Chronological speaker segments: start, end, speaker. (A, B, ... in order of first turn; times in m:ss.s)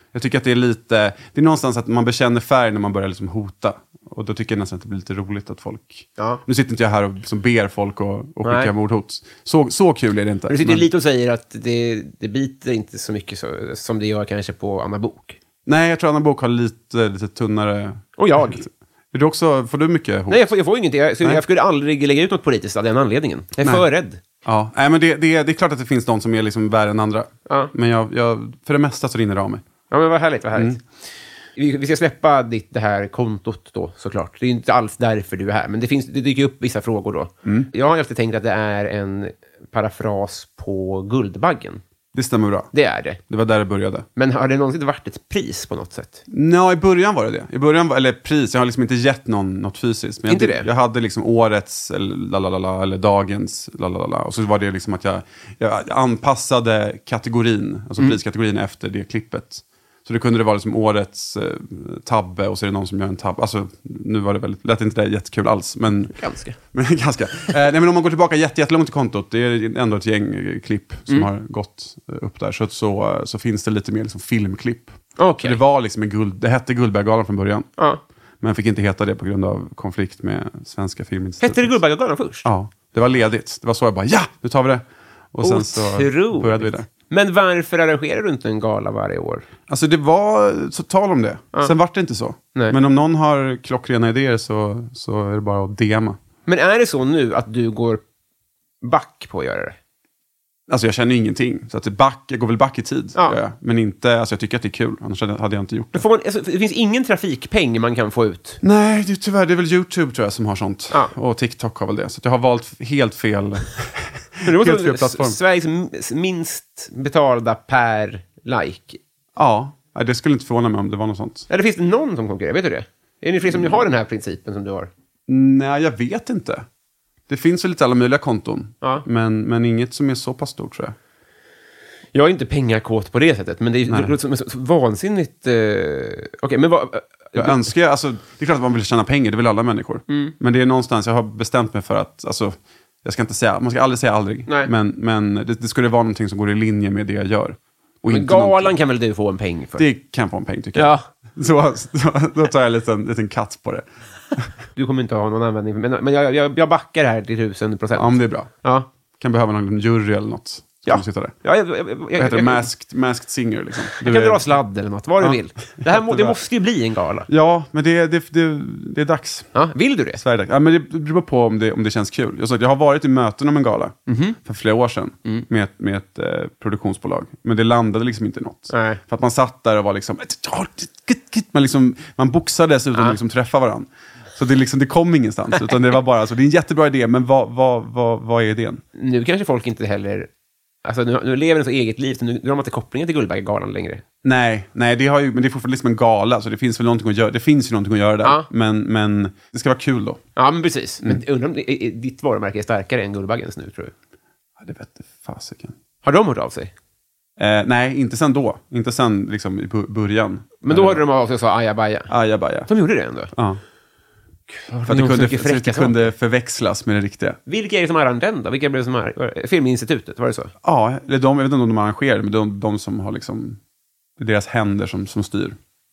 0:00.1-0:10.9 A
0:08.4-0:08.7 B
0:10.5-0:15.4 B
0:15.6-0:20.5 A
0:18.2-0:18.6 B
0:20.3-0:24.2 B
0:24.4-0:29.6 A
0:27.5-0:27.7 B
0:29.9-0:30.8 B
0:31.6-0:41.8 B
0:42.1-0:42.7 A
0:42.7-0:43.2 B
0:43.3-0:44.1 A
0:44.2-0:46.2 B
0:46.3-1:17.7 A
0:50.3-0:50.7 B
1:06.1-1:06.6 B
1:15.2-1:15.6 B
1:18.4-1:21.8 A
1:21.4-1:22.5 B
1:22.4-1:26.9 A
1:25.4-1:29.4 B
1:29.7-1:36.2 A
1:36.4-1:38.0 B
1:38.8-1:39.8 B
1:40.7-1:46.0 A
1:45.9-1:48.6 B
1:48.6-1:55.4 A
1:54.4-1:59.0 B
1:59.3-2:01.5 A
2:01.5-2:04.9 B
2:05.3-2:06.6 A
2:07.3-2:11.0 A
2:12.1-2:17.7 B
2:17.4-2:28.8 A
2:20.1-2:20.3 B
2:28.1-2:29.8 B
2:29.8-2:33.9 A
2:30.8-2:31.1 B
2:34.8-2:38.9 B
2:37.9-2:38.5 A
2:39.2-2:41.3 A
2:40.9-2:42.7 B
2:42.2-2:44.6 A
2:43.9-2:47.3 B
2:45.2-2:46.4 A
2:47.3-2:49.5 A
2:49.5-2:50.2 B
2:50.2-3:08.8 A
2:54.1-2:54.4 B
2:58.7-2:59.0 B
3:08.9-3:10.3 B
3:10.8-3:14.0 B
3:14.2-3:20.2 A
3:20.4-3:23.9 B
3:24.6-3:25.7 A
3:26.0-3:26.7 B
3:27.4-3:31.0 A
3:30.6-3:32.1 B
3:32.1-3:32.7 A
3:32.7-3:33.3 B
3:33.3-3:33.6 A
3:34.5-3:36.0 B
3:34.8-3:37.4 A
3:37.5-3:40.5 B
3:40.6-3:43.6 A
3:44.2-3:45.6 A